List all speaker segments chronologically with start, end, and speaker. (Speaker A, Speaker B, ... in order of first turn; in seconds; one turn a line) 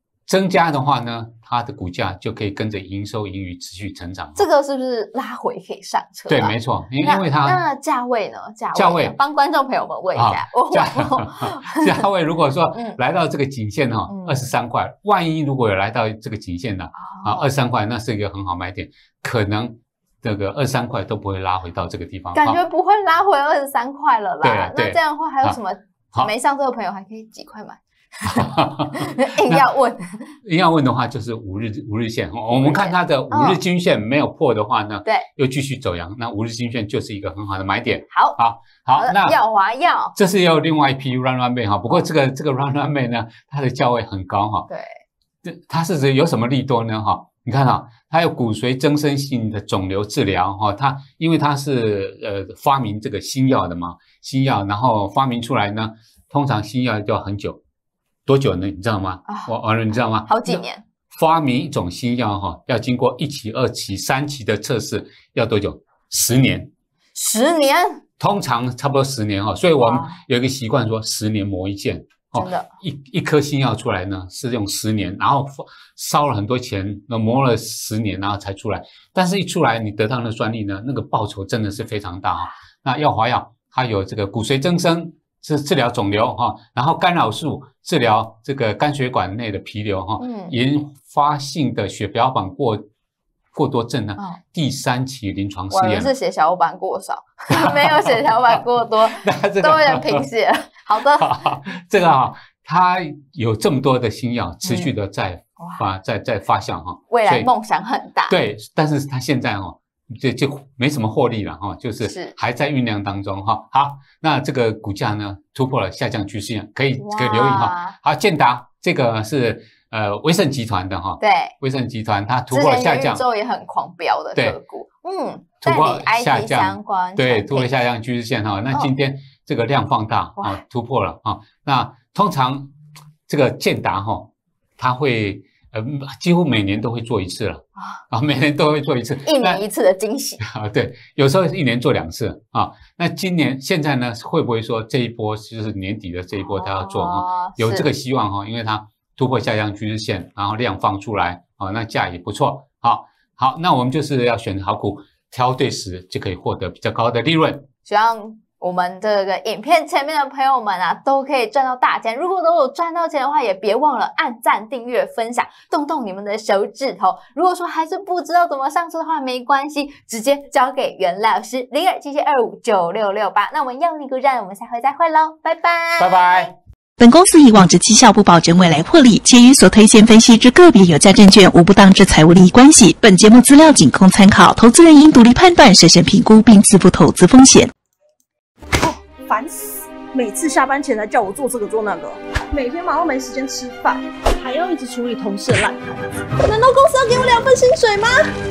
Speaker A: 0.3-4.5
Speaker B: 4.4-12.1
Speaker A: 6.3-7.6
Speaker A: 8.8-9.2
Speaker A: 10.2-22.6
Speaker B: 12.7-13.0
Speaker B: 14.1-14.5
Speaker B: 17.0-17.5
Speaker B: 22.3-30.3
Speaker A: 24.4-25.6
Speaker A: 28.2-29.7
Speaker A: 30.4-39.4
Speaker B: 32.5-33.6
Speaker B: 38.1-38.4
Speaker B: 38.9-40.1
Speaker A: 40.1-44.7
Speaker B: 44.7-45.0
Speaker A: 45.4-57.6
Speaker A: 58.3-66.7
Speaker B: 59.3-59.5
Speaker B: 60.2-60.8
Speaker B: 67.2-68.0
Speaker A: 68.2-92.8
Speaker B: 69.8-70.2
Speaker B: 72.3-72.7
Speaker B: 90.2-90.5
Speaker A: 93.5-96.1
Speaker B: 95.7-101.3
Speaker A: 97.5-98.1
Speaker A: 99.1-100.2
Speaker A: 101.1-107.5
Speaker B: 104.6-104.9
Speaker B: 105.6-105.8
Speaker B: 107.1-108.4
Speaker A: 108.3-123.2
Speaker B: 112.0-112.3
Speaker B: 117.0-118.0
Speaker B: 121.2-121.5
Speaker B: 122.5-127.7
Speaker A: 125.6-132.7
Speaker A: 133.3-139.6
Speaker B: 139.2-140.4
Speaker A: 140.4-157.7
Speaker B: 146.4-147.9
Speaker B: 157.9-176.5
Speaker A: 176.0-176.5
Speaker C: 177.0-187.7
Speaker D: 188.8-198.2